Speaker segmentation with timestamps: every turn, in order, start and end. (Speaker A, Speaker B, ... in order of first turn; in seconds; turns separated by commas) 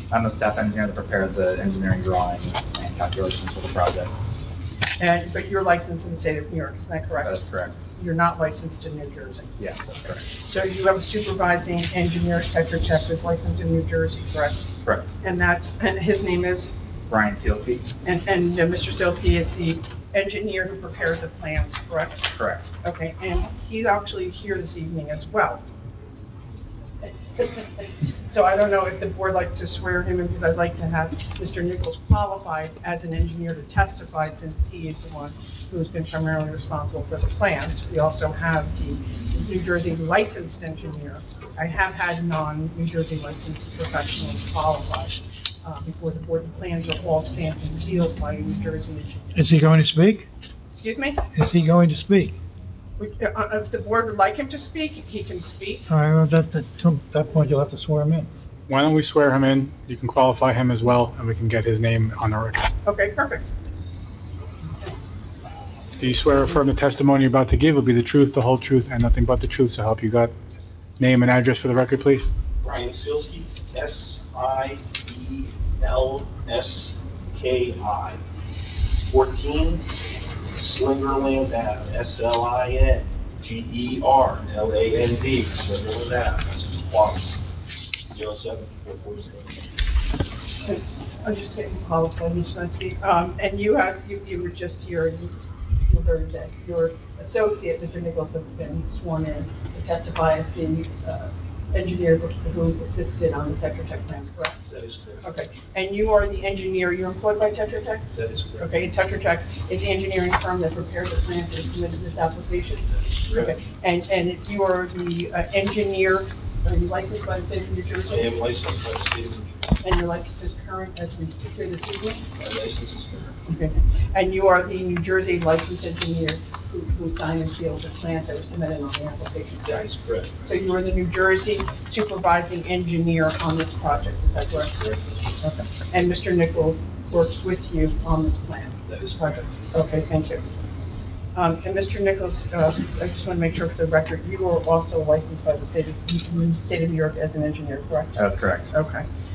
Speaker A: 0.1-4.1, Speaker B: 5.0-9.5, Speaker A: 7.2-7.8, Speaker A: 9.6-10.3, Speaker B: 10.3-14.7, Speaker B: 15.2-16.7, Speaker A: 17.1-17.9, Speaker B: 18.0-22.3, Speaker A: 22.3-22.7, Speaker B: 22.8-25.6, Speaker B: 27.3-49.5, Speaker C: 49.3-50.2, Speaker B: 50.7-51.2, Speaker C: 51.3-52.4, Speaker B: 53.0-55.9, Speaker C: 55.9-58.3, Speaker D: 58.7-62.7, Speaker B: 62.8-63.5, Speaker D: 66.0-70.3, Speaker D: 71.0-72.3, Speaker E: 72.6-78.2, Speaker E: 79.1-79.9, Speaker E: 80.5-87.4, Speaker E: 88.1-89.6, Speaker B: 90.6-95.3, Speaker B: 95.9-104.6, Speaker E: 104.7-105.3, Speaker B: 105.2-118.4, Speaker E: 108.1-108.9, Speaker E: 113.2-113.6, Speaker E: 118.1-119.6, Speaker B: 119.8-122.2, Speaker E: 122.4-123.3, Speaker B: 123.5-129.8, Speaker E: 129.6-130.4, Speaker B: 130.4-138.8, Speaker E: 138.9-139.6, Speaker B: 139.7-140.4, Speaker B: 141.3-149.0, Speaker A: 148.1-148.7